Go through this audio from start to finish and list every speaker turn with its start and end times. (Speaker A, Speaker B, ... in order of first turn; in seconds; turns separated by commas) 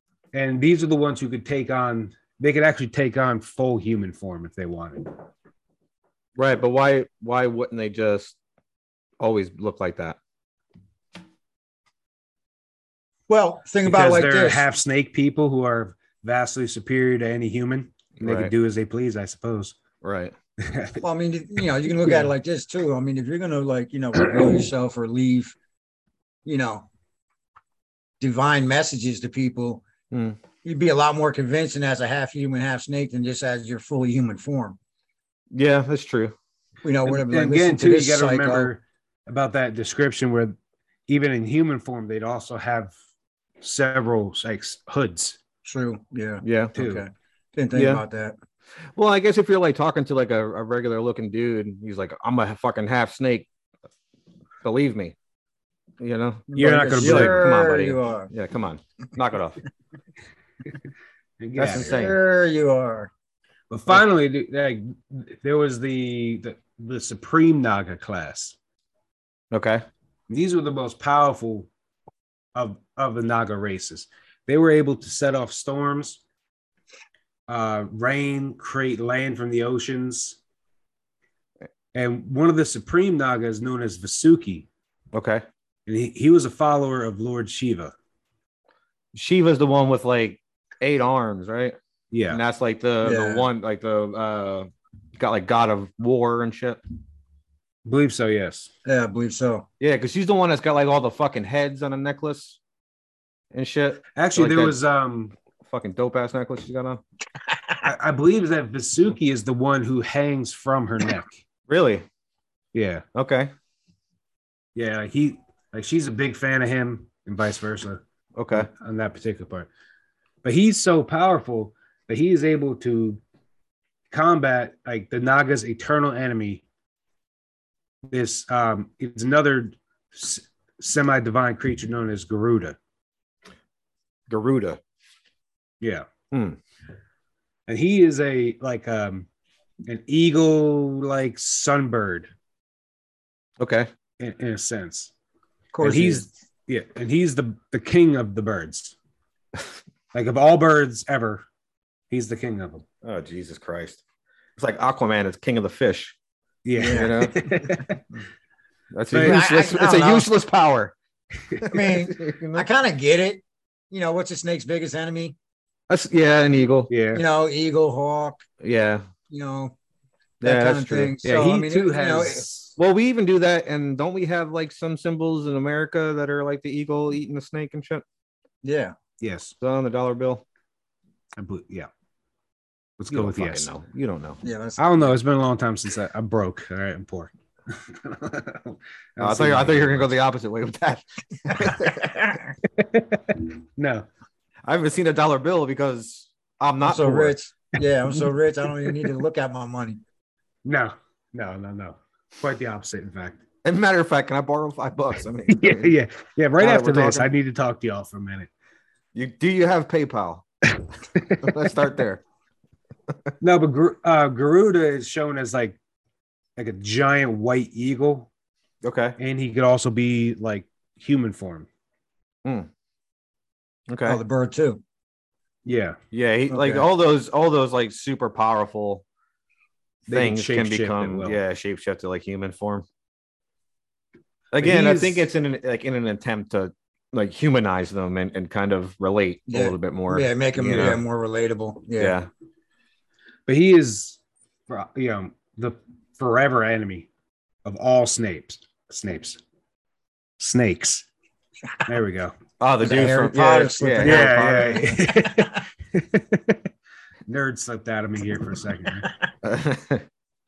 Speaker A: 0.3-5.1, Speaker B: 6.4-8.4, Speaker B: 9.2-10.2, Speaker C: 13.3-14.6, Speaker A: 13.8-19.8, Speaker B: 18.2-18.5, Speaker B: 20.0-20.4, Speaker A: 20.6-21.0, Speaker C: 21.0-25.5, Speaker A: 22.0-22.3, Speaker C: 26.4-26.9, Speaker C: 28.2-29.8, Speaker B: 30.1-30.4, Speaker C: 30.6-34.8, Speaker B: 35.5-36.3, Speaker C: 36.8-38.7, Speaker A: 37.0-40.5, Speaker A: 41.1-42.9, Speaker A: 43.6-45.4, Speaker C: 45.6-48.4, Speaker B: 46.4-46.8, Speaker A: 46.8-47.0, Speaker B: 47.7-48.0, Speaker B: 49.0-53.5, Speaker B: 54.6-55.1, Speaker B: 56.0-59.6, Speaker C: 56.5-58.3, Speaker A: 56.5-57.4, Speaker A: 61.4-62.0, Speaker B: 61.5-62.2, Speaker C: 61.8-63.1, Speaker A: 63.7-68.5, Speaker B: 69.5-69.8, Speaker A: 70.3-71.7, Speaker A: 72.5-76.2, Speaker A: 77.5-80.4, Speaker A: 81.9-84.7, Speaker B: 85.1-85.5, Speaker A: 85.9-87.9, Speaker B: 89.1-91.8, Speaker A: 92.1-92.4, Speaker B: 92.3-96.8, Speaker C: 93.0-93.5, Speaker A: 97.8-98.7, Speaker C: 98.8-99.7, Speaker B: 99.8-102.6, Speaker B: 103.5-104.8, Speaker A: 104.2-105.3, Speaker B: 105.6-107.0, Speaker A: 107.8-111.3, Speaker B: 111.7-112.0, Speaker A: 112.7-113.0, Speaker B: 113.1-113.5, Speaker A: 114.8-118.0, Speaker B: 118.3-118.7, Speaker A: 118.5-119.7, Speaker A: 120.4-123.2, Speaker A: 124.1-126.6, Speaker A: 128.1-132.8, Speaker B: 134.3-134.8, Speaker A: 135.8-136.1, Speaker B: 136.3-136.6, Speaker A: 137.7-139.3, Speaker A: 139.8-142.3, Speaker B: 143.6-143.9, Speaker A: 144.2-145.1, Speaker C: 145.7-146.2, Speaker A: 145.8-148.9, Speaker A: 150.1-151.4, Speaker A: 152.1-152.8, Speaker B: 153.0-154.0, Speaker B: 154.6-156.2, Speaker A: 156.7-158.0, Speaker C: 156.8-157.2, Speaker B: 156.8-157.5, Speaker B: 158.9-160.9, Speaker C: 159.1-160.3, Speaker A: 159.1-159.4, Speaker B: 161.5-162.7, Speaker C: 161.7-165.3, Speaker B: 165.9-166.9, Speaker A: 166.9-167.2, Speaker C: 167.1-168.4, Speaker B: 168.6-169.1, Speaker C: 169.3-169.8, Speaker B: 170.4-171.2, Speaker C: 170.4-172.4, Speaker A: 171.2-172.8, Speaker B: 172.8-178.0, Speaker C: 178.6-178.9, Speaker A: 179.2-179.5, Speaker B: 179.6-180.4, Speaker A: 181.4-181.9, Speaker A: 183.0-183.7, Speaker B: 183.1-184.4, Speaker C: 184.4-184.8, Speaker A: 184.8-190.1, Speaker B: 189.2-192.2, Speaker C: 191.8-192.5, Speaker A: 192.8-194.1, Speaker B: 194.7-197.3, Speaker C: 196.8-200.0, Speaker A: 200.7-203.4, Speaker B: 203.6-205.9, Speaker A: 205.5-208.5, Speaker B: 206.6-207.3, Speaker B: 209.1-210.5, Speaker B: 211.3-212.2, Speaker A: 213.4-215.8, Speaker A: 216.6-218.3, Speaker B: 218.8-219.2, Speaker A: 219.2-221.7, Speaker B: 223.9-224.2, Speaker C: 224.1-224.8, Speaker A: 225.7-226.0, Speaker B: 226.1-229.0, Speaker C: 226.5-226.8, Speaker A: 230.1-231.4, Speaker B: 230.1-232.8, Speaker B: 234.5-241.0, Speaker A: 234.6-235.3, Speaker C: 239.5-242.2, Speaker B: 242.0-242.3, Speaker A: 243.5-247.1, Speaker A: 247.7-249.4, Speaker A: 250.4-251.1, Speaker A: 251.9-252.3, Speaker B: 252.6-254.8, Speaker C: 252.8-255.0, Speaker A: 254.0-256.6, Speaker A: 257.3-259.1, Speaker B: 259.4-260.0